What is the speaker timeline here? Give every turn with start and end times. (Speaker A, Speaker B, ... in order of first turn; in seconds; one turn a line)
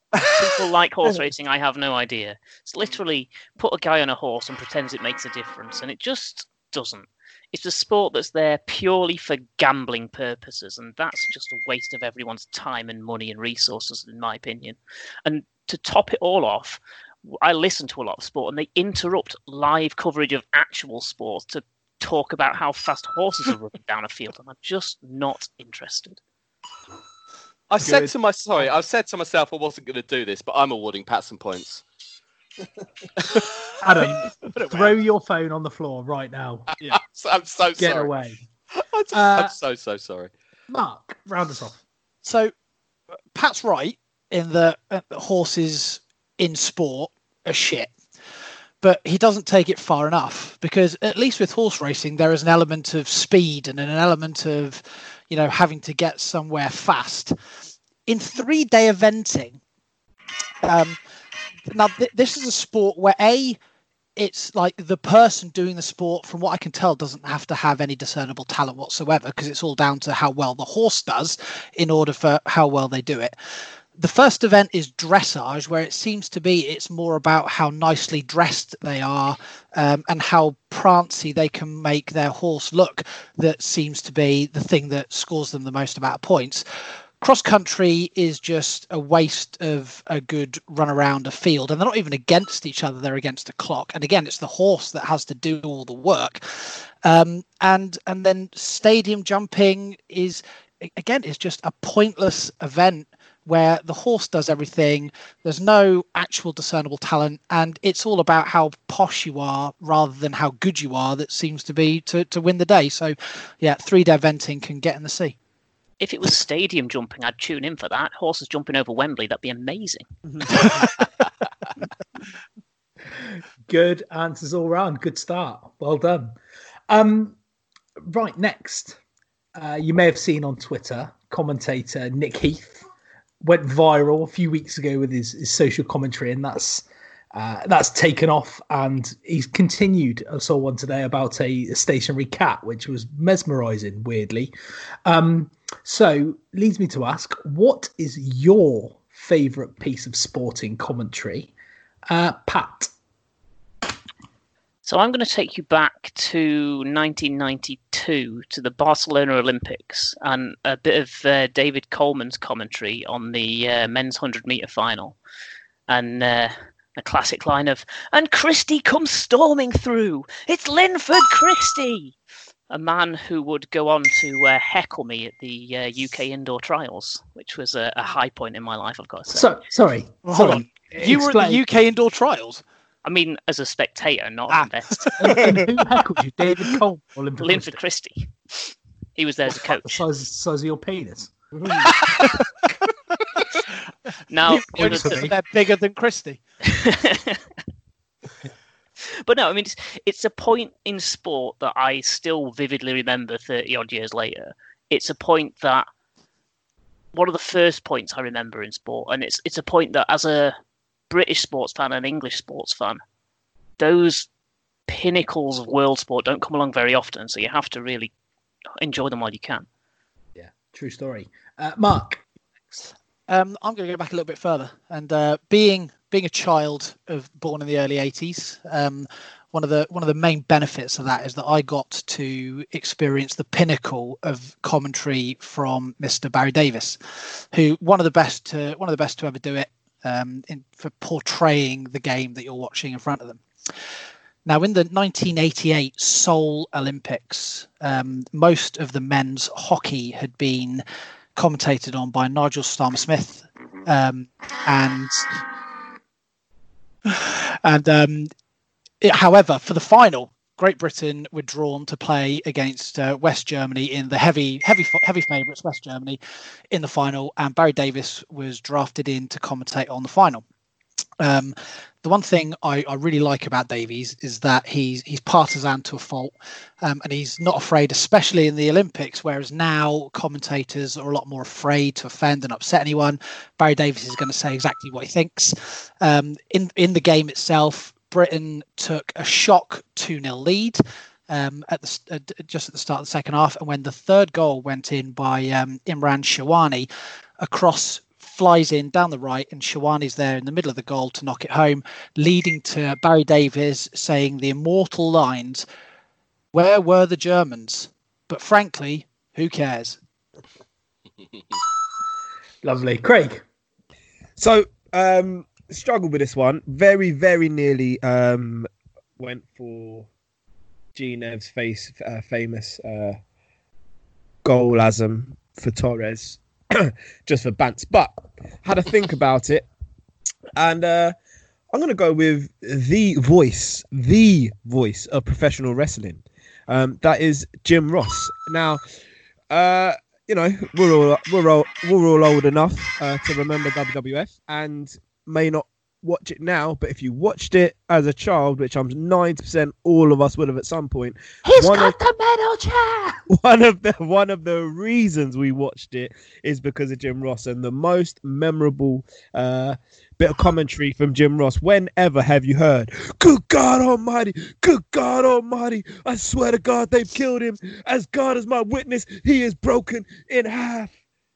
Speaker A: 0.4-16.8
Speaker A: 17.4-26.2
Speaker B: 27.7-31.8
Speaker C: 27.8-28.1
Speaker C: 33.8-36.7
Speaker B: 36.7-38.1
Speaker C: 37.8-38.4
Speaker B: 38.7-40.3
Speaker C: 39.1-39.5
Speaker C: 40.7-41.8
Speaker D: 42.2-42.5
Speaker D: 43.3-47.9
Speaker D: 48.8-57.3
Speaker D: 58.0-59.6
Speaker D: 60.6-61.0
Speaker D: 61.7-63.6
Speaker D: 64.2-73.3
Speaker D: 74.0-86.6
Speaker D: 87.2-115.3
Speaker A: 116.0-121.0
Speaker C: 123.7-126.3
Speaker C: 126.9-127.3
Speaker C: 128.0-129.0
Speaker C: 129.6-132.8
Speaker C: 133.4-144.5
Speaker C: 145.0-151.5
Speaker C: 152.1-152.9
Speaker A: 154.8-165.2
Speaker A: 165.9-172.1
Speaker A: 172.7-179.5
Speaker C: 179.3-181.6
Speaker D: 180.2-182.6
Speaker A: 183.0-185.5
Speaker D: 184.5-185.4
Speaker C: 185.2-187.8
Speaker A: 187.4-190.0
Speaker C: 189.7-191.4
Speaker A: 194.3-195.3
Speaker D: 194.5-196.4
Speaker C: 194.7-195.3
Speaker A: 196.7-197.4
Speaker A: 199.2-205.8
Speaker A: 207.1-210.5
Speaker A: 211.1-213.0
Speaker A: 213.8-214.3
Speaker A: 214.9-218.1
Speaker A: 218.8-219.7
Speaker C: 220.3-222.2
Speaker D: 223.3-243.4
Speaker D: 244.4-250.8
Speaker D: 251.3-255.4
Speaker D: 257.1-258.3
Speaker D: 259.0-266.2
Speaker D: 266.7-270.4
Speaker D: 271.2-296.9
Speaker D: 297.4-305.6
Speaker D: 306.5-310.0
Speaker C: 312.6-313.4
Speaker E: 314.4-318.7
Speaker E: 319.2-320.1
Speaker E: 320.9-323.2
Speaker E: 324.4-329.7
Speaker E: 330.6-331.1
Speaker E: 331.7-338.8
Speaker E: 339.5-352.0
Speaker C: 351.4-353.2
Speaker E: 353.3-370.9